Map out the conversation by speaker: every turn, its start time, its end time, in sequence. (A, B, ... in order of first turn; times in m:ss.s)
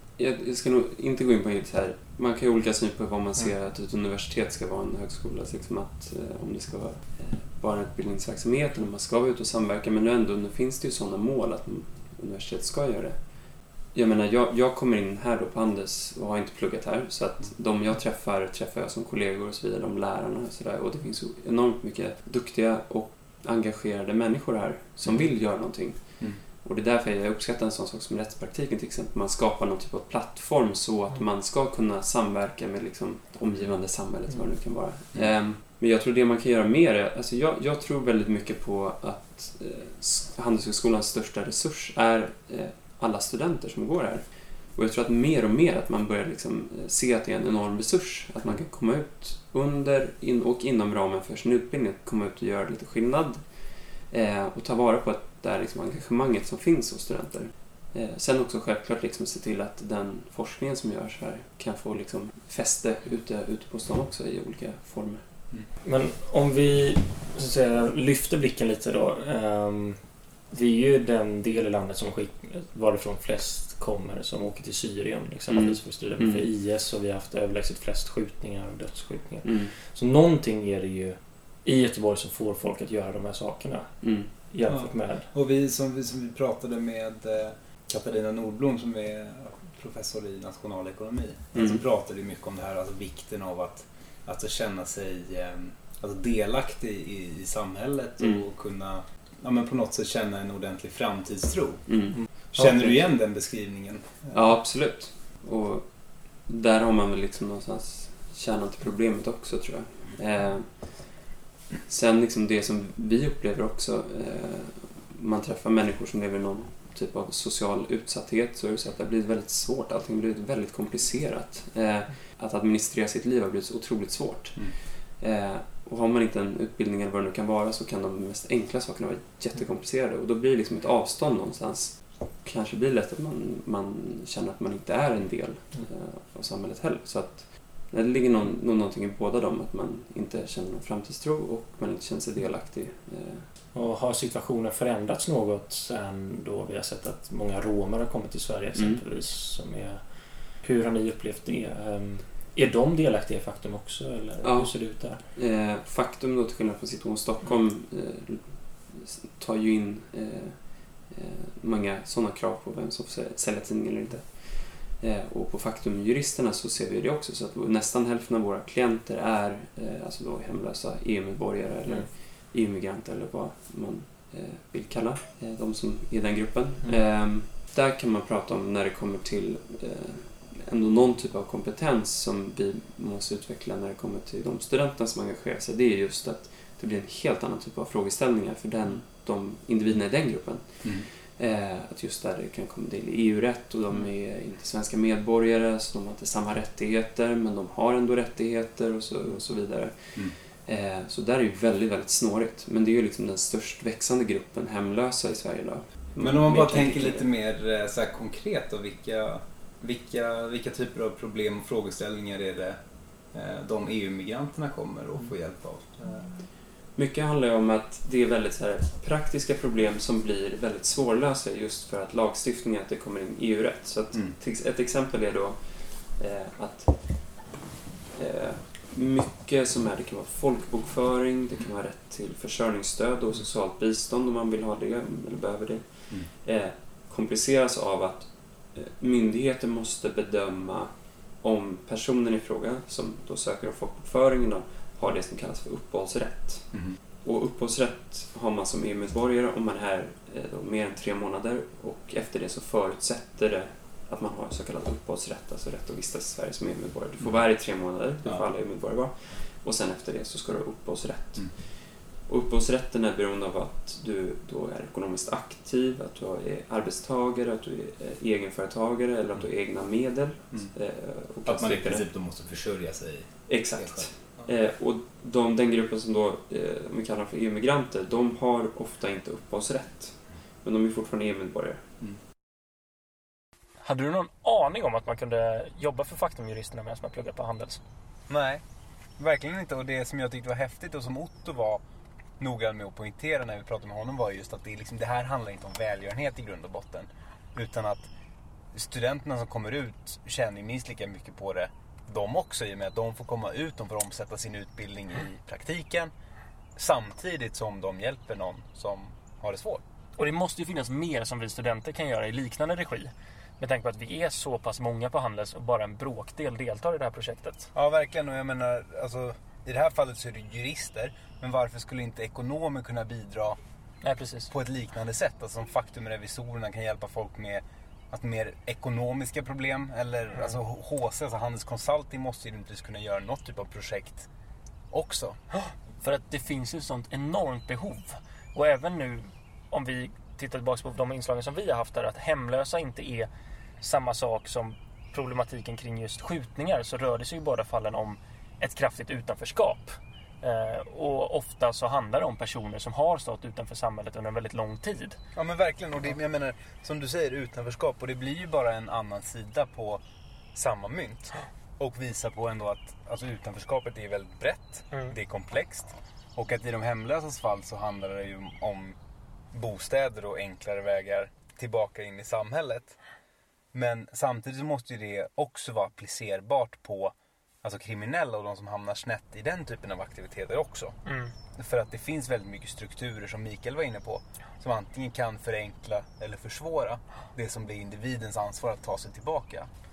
0:00.2-1:05.5 A
0:25.0-0:25.3 B
0:35.1-0:35.4 B
1:05.8-1:25.3 C
1:15.5-1:16.5 A
1:19.4-1:19.7 A
1:24.0-1:24.3 A
1:24.7-1:44.5 B
1:31.5-1:31.8 A
1:38.2-1:38.4 A
1:41.9-1:43.0 A
1:44.3-1:51.2 A
1:51.9-2:23.5 A
2:23.7-2:35.2 C
2:28.7-2:29.0 A
2:34.4-3:27.3 A
3:26.2-3:36.3 B
3:36.5-3:47.5 A
3:48.1-4:32.1 A
4:31.4-4:34.3 B
4:33.5-4:41.9 A
4:43.8-4:47.8 C
4:48.3-4:48.6 D
4:49.2-4:51.8 D
4:52.4-4:58.1 D
4:58.7-5:06.1 D
5:06.8-5:09.8 D
5:10.2-5:17.7 C
5:17.8-5:23.6 D
5:24.0-5:24.5 C
5:24.6-5:34.3 D
5:34.9-5:35.7 D
5:36.0-5:43.3 C
5:43.8-5:55.2 C
5:55.4-6:00.0 D
6:00.6-6:01.3 D
6:01.8-6:09.0 D
6:02.2-6:03.2 B
6:09.5-6:13.0 D
6:13.7-6:21.0 D
6:21.1-6:21.3 C
6:21.6-6:29.7 D